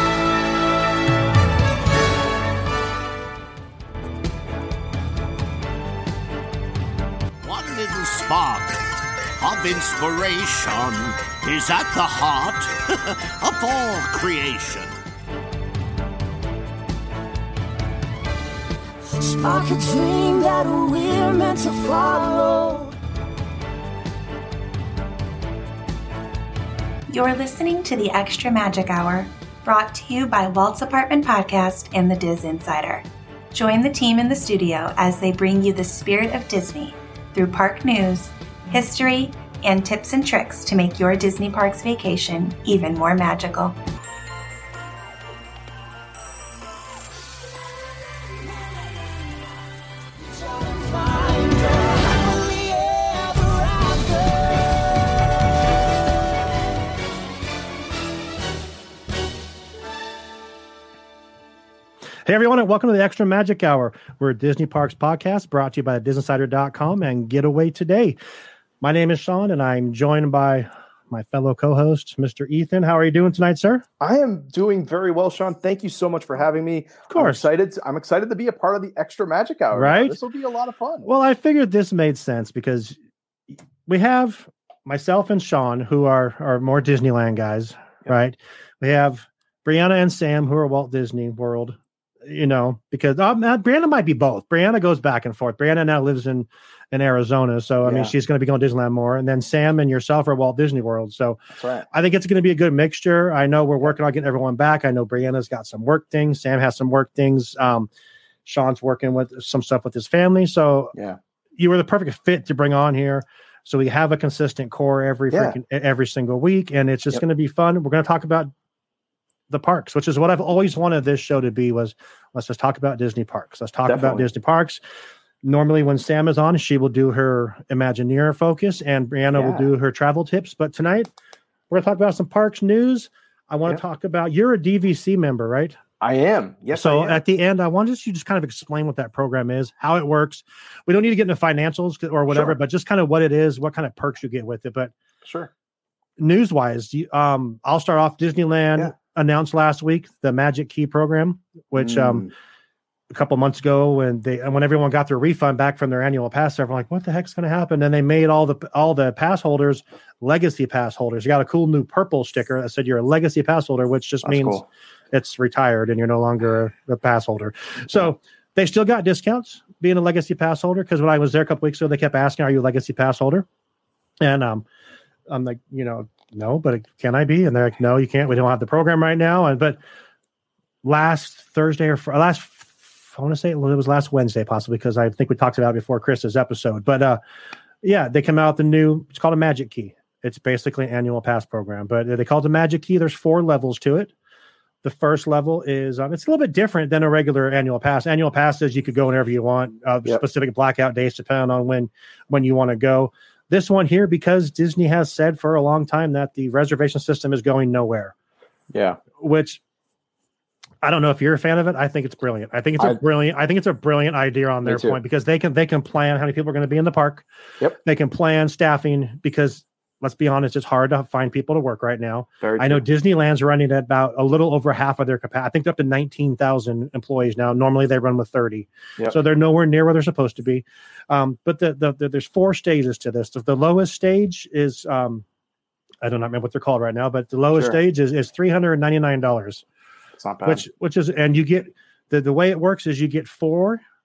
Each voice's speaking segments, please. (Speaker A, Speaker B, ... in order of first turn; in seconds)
Speaker A: 7.4-8.8, 9.4-15.0
Speaker B: 19.2-22.9, 50.2-55.1
Speaker C: 27.1-43.8
Speaker D: 62.2-68.2, 68.8-73.8, 77.1-77.5, 79.7-80.2, 81.0-83.0, 83.9-101.4, 101.9-107.9, 108.5-110.9, 111.6-118.5, 119.5-124.8, 125.4-131.1, 131.7-135.8, 136.7-144.9, 146.2-152.3, 153.1-173.5, 174.2-174.7, 175.3-179.8, 180.8-187.2, 187.8-194.1, 194.8-208.1, 209.2-209.6, 210.8-217.2, 217.8-235.2, 236.0-239.6, 240.4-243.8
Speaker E: 74.0-81.1, 97.8-98.1, 101.6-101.9, 115.3-115.6, 123.9-124.3, 129.3-129.7, 136.0-137.2, 145.2-145.5, 151.8-152.3, 164.2-164.7, 208.7-209.0, 214.6-215.0, 222.4-222.8, 237.5-237.8, 240.2-240.6